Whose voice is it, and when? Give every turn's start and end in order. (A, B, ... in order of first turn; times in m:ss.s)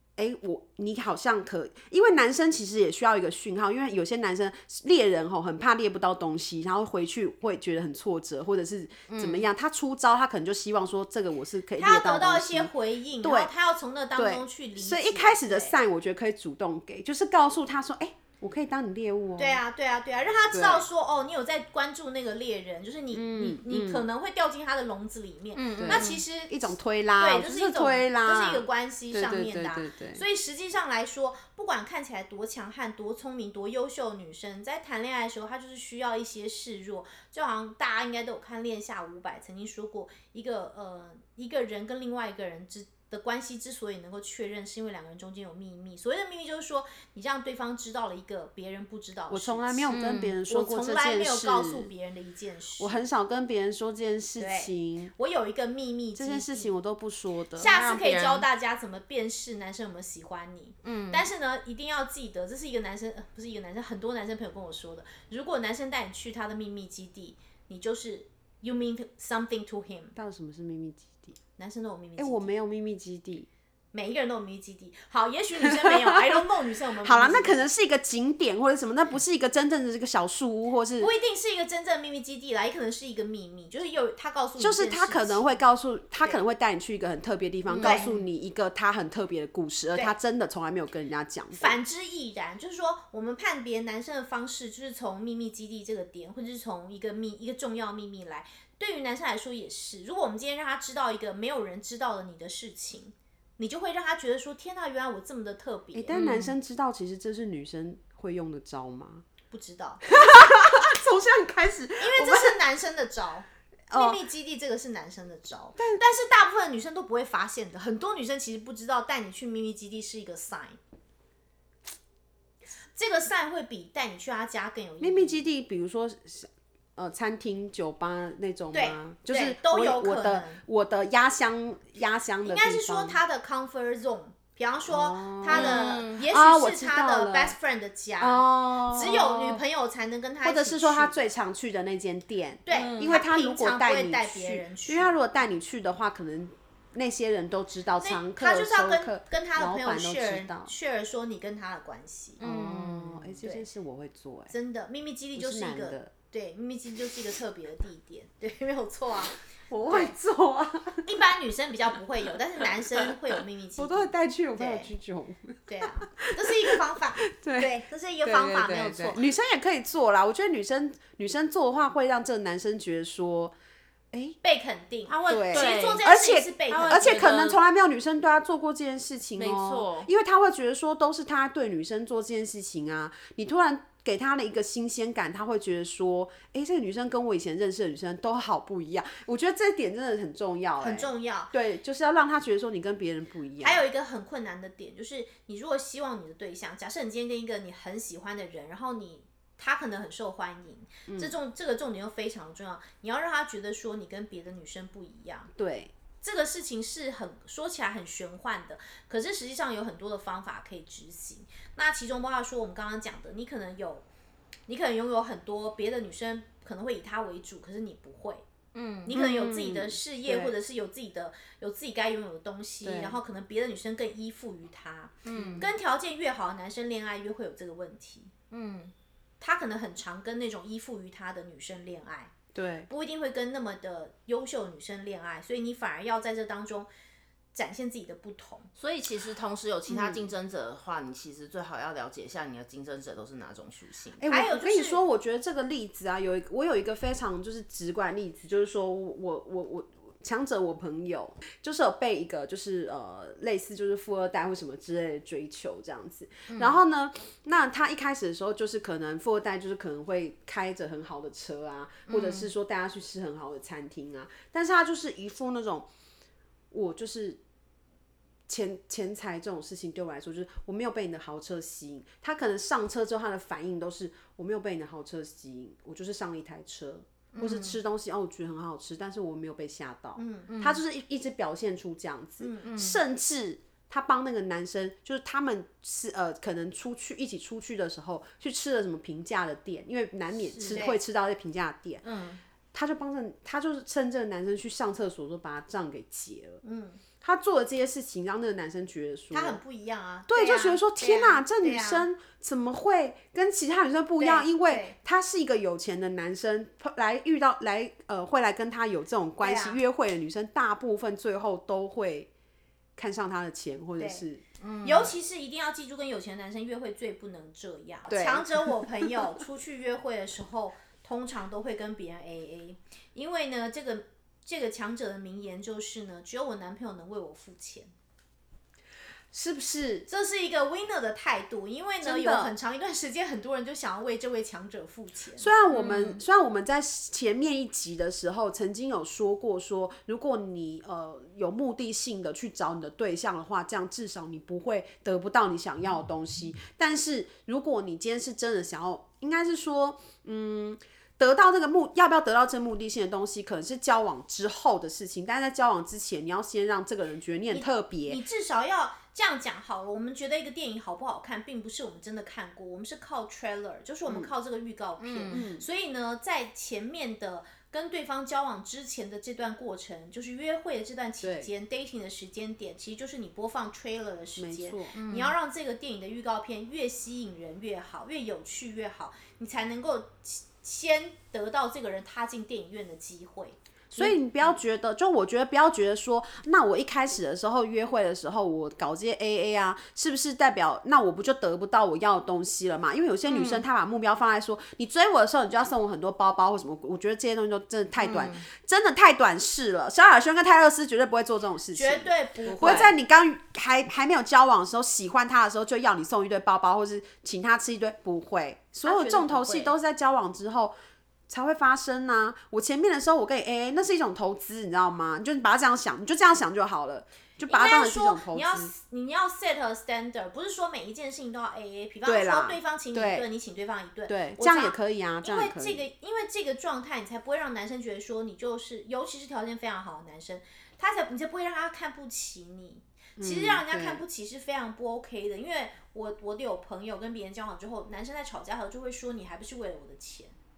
0:00.2-0:13.5 A
0:09.1-0:09.5 B
0:11.8-0:15.8 C
0:14.2-0:19.6 A
0:19.4-0:49.9 C
0:20.5-0:20.8 A
0:23.1-0:24.1 A
0:25.6-0:26.2 B
0:25.8-0:30.2 A
0:49.3-0:51.9 A
0:49.9-0:50.4 B
0:50.5-0:53.0 C
0:52.8-0:55.1 A
0:54.4-0:56.7 C
0:56.2-0:57.7 A
0:57.6-1:10.1 C
0:57.6-0:58.5 B
1:00.8-1:01.3 B
1:10.2-1:11.4 A
1:11.6-1:12.5 C
1:12.2-1:13.5 A
1:13.9-1:17.7 C
1:15.6-1:16.4 A
1:17.0-1:21.1 A
1:21.0-1:25.6 C
1:24.6-1:31.8 A
1:27.7-1:28.2 B
1:27.8-1:28.1 C
1:31.5-1:46.2 C
1:45.9-1:49.2 A
1:46.1-1:46.6 B
1:49.5-1:50.1 C
1:50.1-1:52.6 A
1:52.0-2:00.8 C
1:53.9-1:54.2 A
2:03.0-2:05.4 C
2:05.0-2:13.2 A
2:08.7-2:10.6 C
2:12.4-2:21.3 C
2:14.9-2:17.6 A
2:15.5-2:16.2 B
2:18.2-2:19.6 B
2:18.8-2:19.1 A
2:20.4-2:30.7 A
2:22.7-2:25.2 C
2:22.7-2:23.1 B
2:28.0-2:32.4 C
2:32.4-2:34.5 A
2:32.4-2:33.3 B
2:34.5-2:40.1 C
2:35.4-2:36.1 A
2:39.7-2:41.1 A
2:41.1-2:44.9 C
2:43.8-2:53.5 A
2:45.7-2:49.2 C
2:54.1-2:54.4 A
2:54.4-2:57.3 C
2:55.1-2:56.1 B
2:55.3-3:13.8 A
2:56.7-2:57.6 B
2:59.4-3:00.1 B
3:10.8-3:11.5 C
3:13.6-3:25.5 C
3:21.1-3:21.4 A
3:25.6-3:25.9 A
3:26.2-3:34.0 C
3:34.7-3:38.4 C
3:38.7-3:39.2 B
3:39.1-3:48.3 C
3:39.1-3:40.5 A
3:42.8-3:43.2 A
3:45.2-3:45.7 B
3:45.3-3:45.7 A
3:48.5-3:48.9 B
3:49.4-3:52.3 C
3:52.5-3:52.9 A
3:52.9-3:56.9 C
3:57.5-3:58.7 C
3:58.8-4:04.2 B
3:59.9-4:00.3 A
4:04.2-4:25.9 A
4:04.2-4:05.0 C
4:16.5-4:16.8 B
4:22.1-4:22.5 B
4:26.7-4:27.4 A
4:28.5-4:52.0 A
4:37.4-4:37.8 B
4:40.2-4:40.5 C
4:40.5-4:40.8 B
4:42.4-4:42.8 C
4:42.6-4:43.0 B
4:50.5-4:51.0 C
4:52.7-4:56.6 A
4:56.6-4:57.0 C
4:57.2-4:59.6 A
4:59.3-5:02.1 C
5:00.3-5:12.3 A
5:04.2-5:05.0 C
5:09.4-5:09.8 C
5:13.0-5:14.4 A
5:14.0-5:14.2 C
5:14.6-5:15.2 B
5:14.8-5:27.9 C
5:18.1-5:19.2 A
5:29.3-5:30.1 A
5:30.1-5:35.5 C
5:32.0-5:32.5 A
5:35.4-5:58.2 A
5:35.7-5:36.2 B
5:57.5-6:24.2 C
6:05.0-6:05.4 B
6:05.3-6:05.7 A
6:11.2-6:11.5 A
6:14.4-6:14.9 A
6:15.0-6:15.4 B
6:23.9-6:50.7 A
6:33.3-6:33.6 B
6:38.0-6:38.4 B
6:41.7-6:42.9 C
6:42.5-6:42.9 B
6:48.8-6:49.7 C
6:51.3-6:58.7 A
6:57.5-7:20.4 C
7:02.1-7:03.3 A
7:04.1-7:05.9 A
7:13.2-7:14.0 A